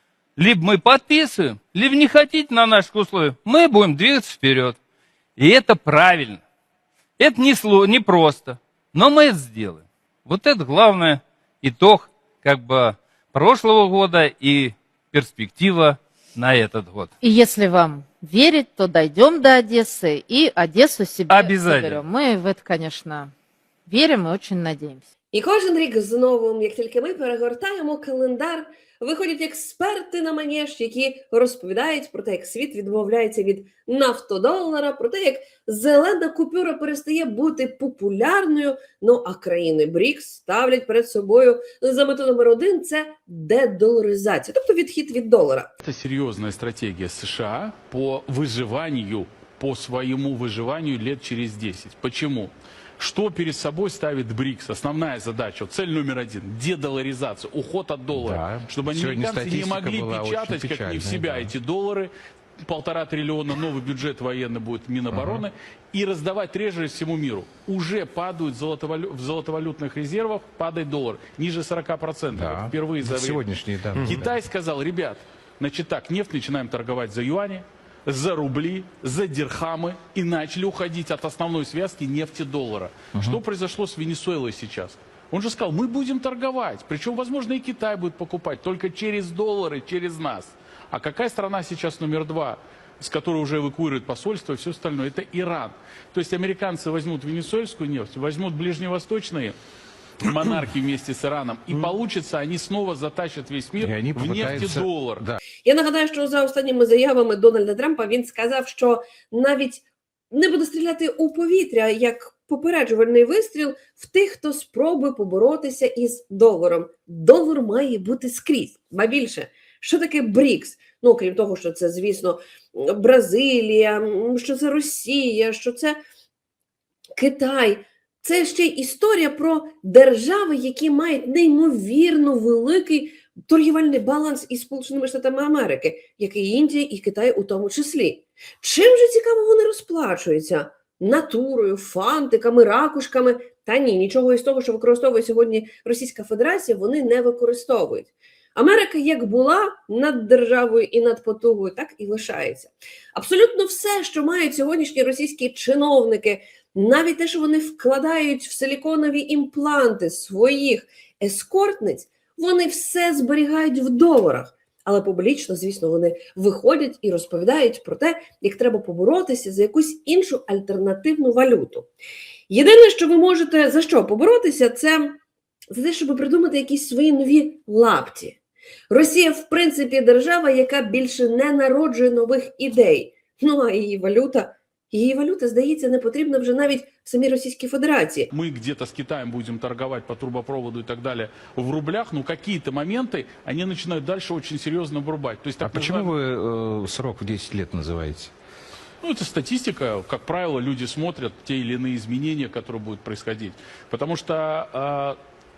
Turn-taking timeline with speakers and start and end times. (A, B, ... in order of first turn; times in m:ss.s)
0:00.4-0:04.8 A
0:05.4-0:06.4 A
0:07.2-0:17.1 A
0:17.2-0:23.3 B
0:21.3-0:21.9 A
0:23.9-0:25.0 B
0:25.3-0:45.7 C
0:45.8-1:02.1 D
0:58.1-1:01.5 E
1:02.6-1:39.5 D
1:05.1-1:05.4 E
1:12.3-1:14.4 E
1:23.1-1:23.4 E
1:40.2-1:45.2 D
1:43.8-1:45.4 E
1:45.6-2:06.0 C
2:07.2-2:51.9 C
2:52.5-2:55.1 C
2:55.7-2:58.4 C
2:58.9-3:08.3 C
3:08.3-3:16.1 D
3:15.6-3:18.3 E
3:19.0-3:25.2 D